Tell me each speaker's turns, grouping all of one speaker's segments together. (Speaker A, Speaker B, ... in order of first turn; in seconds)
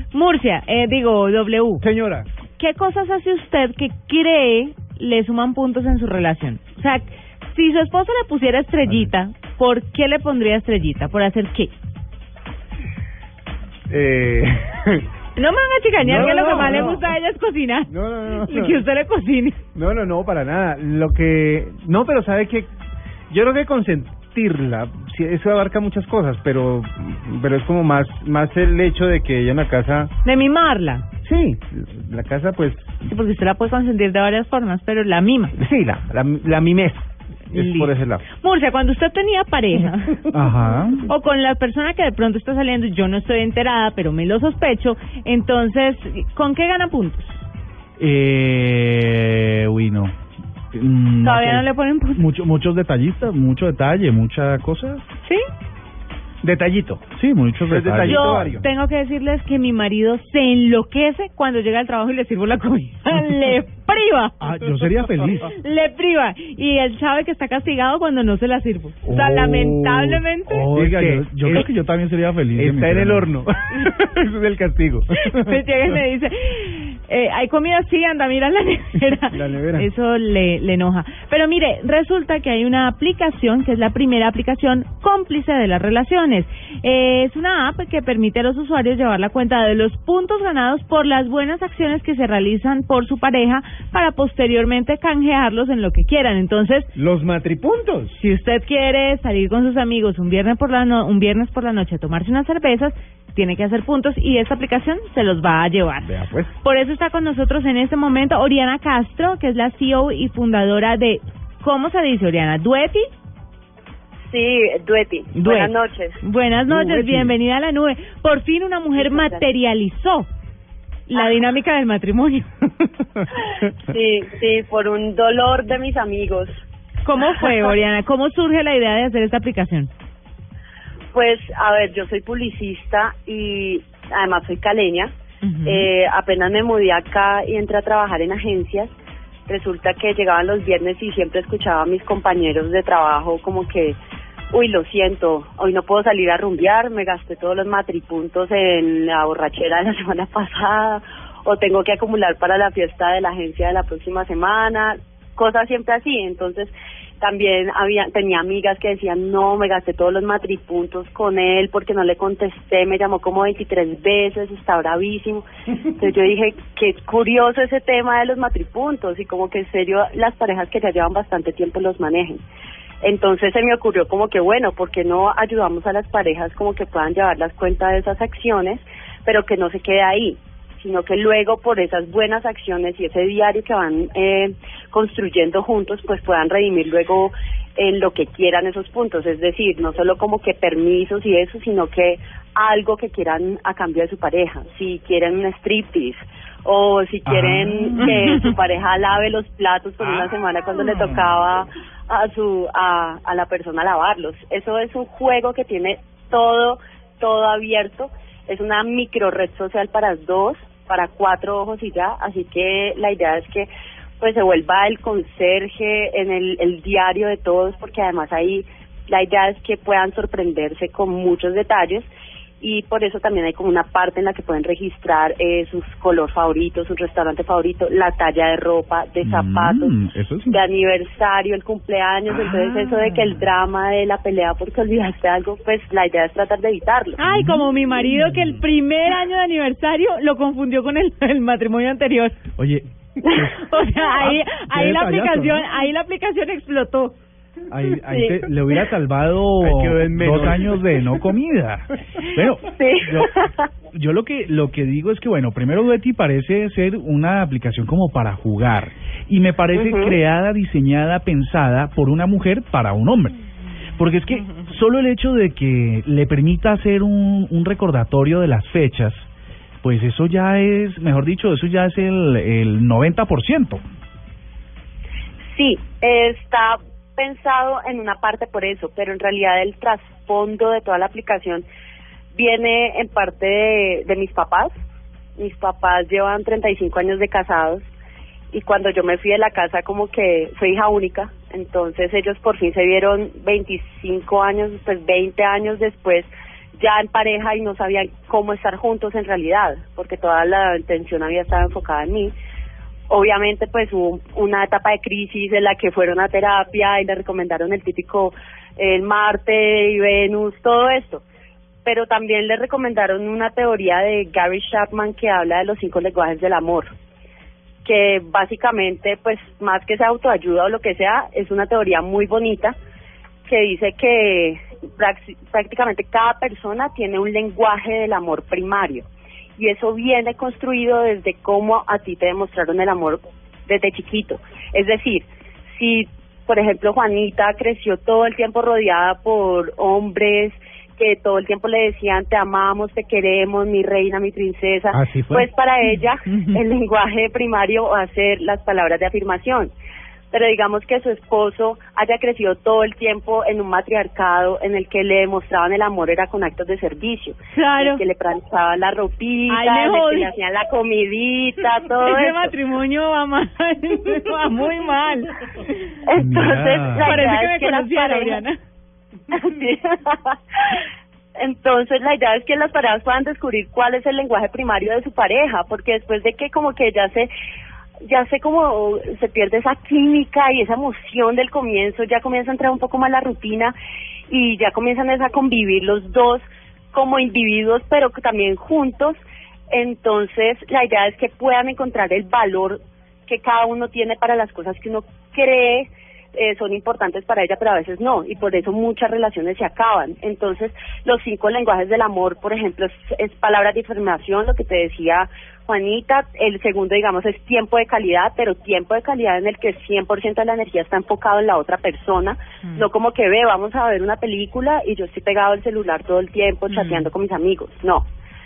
Speaker A: 0.1-1.8, 2.5-11.7, 15.3-19.6, 30.2-31.0, 33.0-35.5, 37.5-40.2, 41.1-47.4, 51.2-52.2, 58.0-64.4, 65.3-70.7, 75.2-96.9, 98.2-106.1, 106.6-113.1, 115.3-120.3, 121.1-122.6, 127.0-129.9, 135.4-135.9, 237.2-242.4, 243.6-247.2, 357.5-358.0, 359.5-360.3, 362.0-365.9, 367.0-368.6, 416.7-417.1
Speaker B: 1.8-2.3, 13.9-15.1, 16.0-17.1, 17.9-18.8, 19.7-22.7, 23.3-30.1, 31.2-33.0, 35.5-38.2, 56.4-57.0, 57.6-58.6, 70.6-71.7, 72.5-75.5, 79.3-79.9, 97.0-98.2, 106.0-106.5, 116.7-117.2, 249.6-250.7, 344.9-345.5
Speaker C: 40.3-41.1, 48.0-50.1, 50.7-55.0, 57.1-58.6, 64.4-65.5, 69.0-73.3, 197.2-198.4, 200.8-201.2, 229.2-230.6, 237.2-237.7, 242.6-243.6, 244.2-245.5, 247.7-253.3, 253.9-263.3, 264.0-269.3, 269.8-273.8, 366.1-367.1
Speaker D: 114.3-116.2, 119.0-119.4, 123.8-126.6, 131.1-135.1, 135.6-138.9, 139.5-144.0, 144.5-172.4, 173.0-213.7, 214.2-222.1, 222.6-229.9, 230.5-237.2, 248.1-248.4, 252.7-253.6, 259.7-260.1, 275.5-281.6, 282.3-284.7, 285.4-287.9, 288.5-302.3, 303.1-311.2, 311.8-316.9, 317.8-322.8, 323.5-329.1, 329.6-349.7, 350.3-362.5, 366.1-368.4, 369.3-370.7, 371.4-377.3, 378.0-383.7, 384.3-389.2, 389.7-418.1